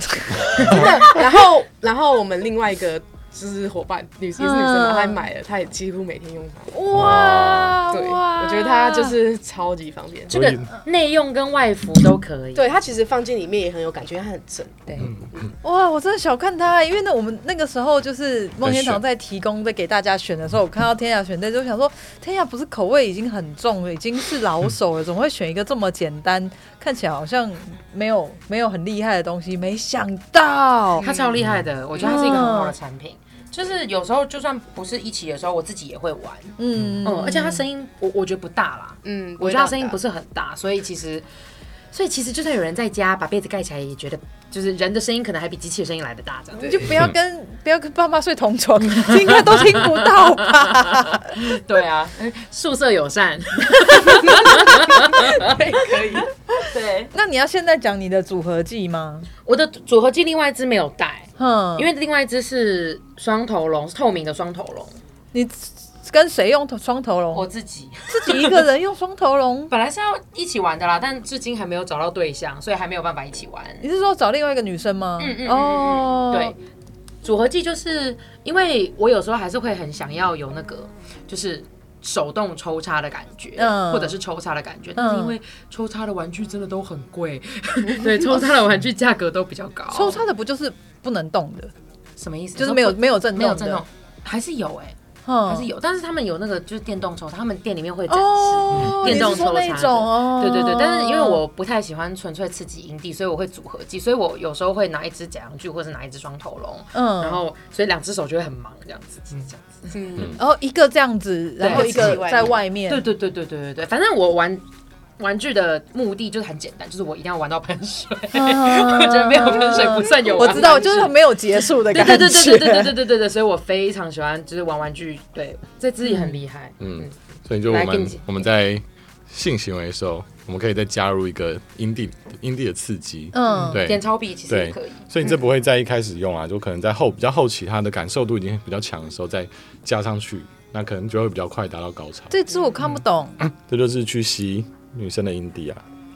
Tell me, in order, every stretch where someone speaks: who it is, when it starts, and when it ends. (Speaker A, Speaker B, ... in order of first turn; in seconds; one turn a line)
Speaker A: 0.4-6.8
Speaker B: 4.4-5.2
Speaker B: 6.7-9.2
Speaker C: 6.9-7.8
Speaker A: 7.9-10.4
Speaker C: 10.3-10.7
Speaker D: 10.3-12.8
Speaker A: 12.5-15.5
Speaker B: 15.6-31.1
Speaker C: 18.6-19.0
Speaker A: 31.0-31.4
Speaker D: 31.0-41.2
Speaker B: 32.0-32.7
Speaker B: 36.6-37.6
Speaker A: 39.0-40.0
Speaker D: 41.9-46.8
Speaker A: 46.6-47.0
Speaker B: 46.6-51.3
Speaker D: 49.1-57.1
Speaker A: 55.3-56.3
Speaker B: 57.1-59.3
Speaker D: 59.5-65.0
Speaker B: 61.4-61.9
Speaker B: 65.3-67.5
Speaker D: 67.3-68.6
Speaker B: 68.1-69.7
Speaker D: 69.7-73.8
Speaker B: 73.8-76.5
Speaker D: 75.2-76.6
Speaker D: 77.2-90.2
Speaker B: 83.6-84.2
Speaker B: 85.0-85.3
Speaker B: 89.9-91.7
Speaker D: 92.2-95.0
Speaker B: 92.6-93.8
Speaker B: 95.2-95.7
Speaker D: 95.5-110.2
Speaker B: 98.1-101.4
Speaker B: 106.9-107.4
Speaker A: 109.9-110.4
Speaker B: 110.3-113.0
Speaker D: 111.6-114.6
Speaker A: 111.6-112.5
Speaker D: 115.2-121.2
Speaker B: 118.3-123.0
Speaker A: 119.8-120.9
Speaker D: 121.8-127.1
Speaker B: 126.0-126.3
Speaker C: 126.8-142.3
Speaker D: 127.7-128.3
Speaker B: 133.3-133.8
Speaker D: 133.8-135.1
Speaker B: 142.3-143.4
Speaker C: 143.4-145.8